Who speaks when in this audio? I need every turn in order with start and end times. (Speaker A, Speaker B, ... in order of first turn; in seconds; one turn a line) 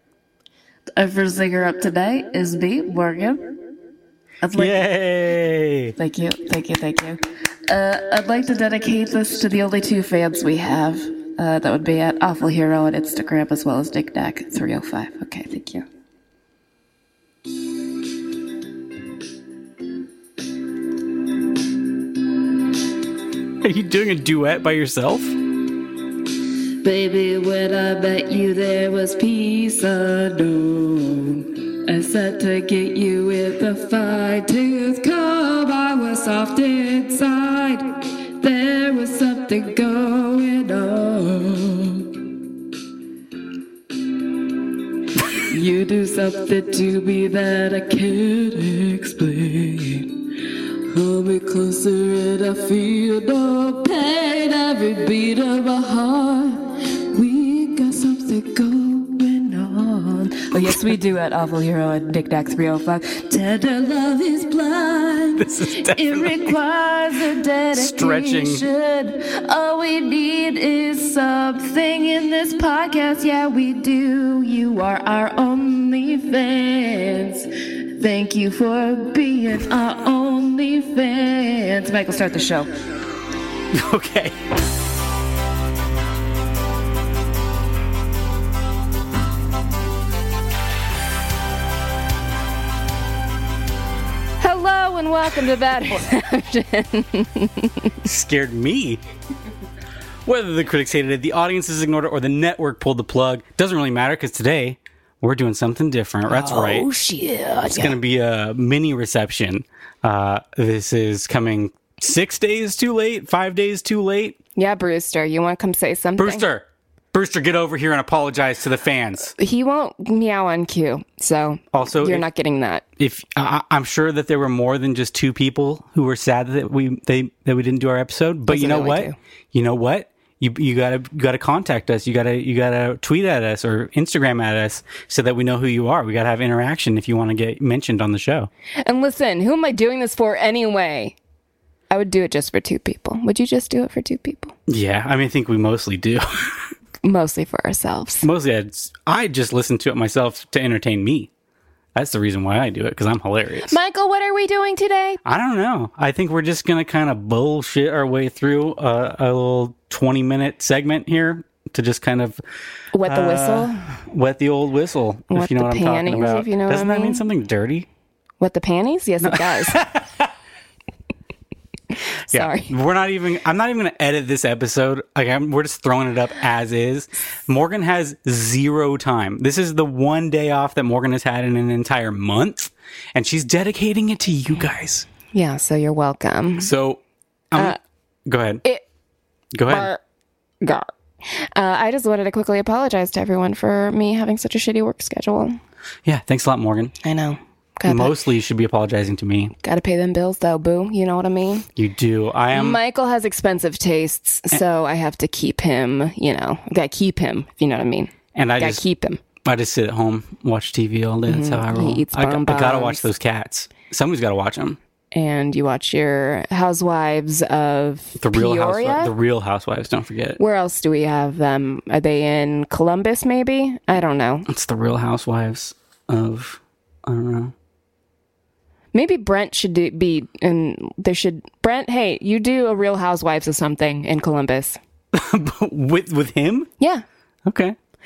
Speaker A: 1.0-3.6
Speaker A: 4.4-4.7
Speaker B: 4.5-6.0
Speaker A: 6.0-7.2
Speaker A: 7.7-15.8
Speaker B: 23.6-25.4
Speaker A: 26.8-42.2
Speaker A: 45.3-50.3
Speaker A: 50.9-82.7
Speaker B: 65.4-66.5
Speaker B: 67.7-68.7
Speaker B: 83.7-84.4
Speaker C: 94.5-97.9
Speaker B: 98.0-99.0
Speaker B: 100.3-106.9
Speaker C: 106.4-106.9
Speaker A: 106.9-107.7
Speaker C: 107.7-107.9
Speaker B: 107.7-114.4
Speaker C: 114.6-116.4
Speaker B: 116.2-119.3
Speaker C: 119.4-122.8
Speaker B: 121.7-122.3
Speaker B: 123.0-138.5
Speaker C: 128.5-129.2
Speaker C: 138.8-141.2
Speaker C: 141.9-144.5
Speaker B: 144.7-146.7
Speaker C: 147.0-148.3
Speaker B: 148.2-151.3
Speaker B: 151.9-153.8
Speaker C: 153.7-155.2
Speaker B: 155.2-162.4
Speaker C: 162.9-163.8
Speaker B: 163.0-167.9
Speaker C: 165.3-167.2
Speaker C: 168.4-169.8
Speaker B: 169.2-170.3
Speaker C: 172.3-172.7
Speaker B: 172.3-185.1
Speaker C: 185.3-186.7
Speaker B: 186.6-187.0
Speaker B: 187.5-188.6
Speaker B: 189.5-189.9
Speaker C: 189.7-190.0
Speaker C: 190.6-195.6
Speaker B: 196.1-196.9
Speaker C: 197.0-198.2
Speaker B: 197.9-199.5
Speaker C: 199.6-201.7
Speaker B: 201.8-202.8
Speaker C: 202.5-209.2
Speaker B: 208.3-208.8
Speaker B: 209.4-214.8
Speaker C: 211.3-213.1
Speaker C: 215.1-219.1
Speaker B: 218.2-220.4
Speaker C: 220.4-224.5
Speaker B: 224.5-227.5
Speaker C: 228.9-234.8
Speaker B: 235.1-236.7
Speaker C: 236.8-237.1
Speaker B: 237.4-237.8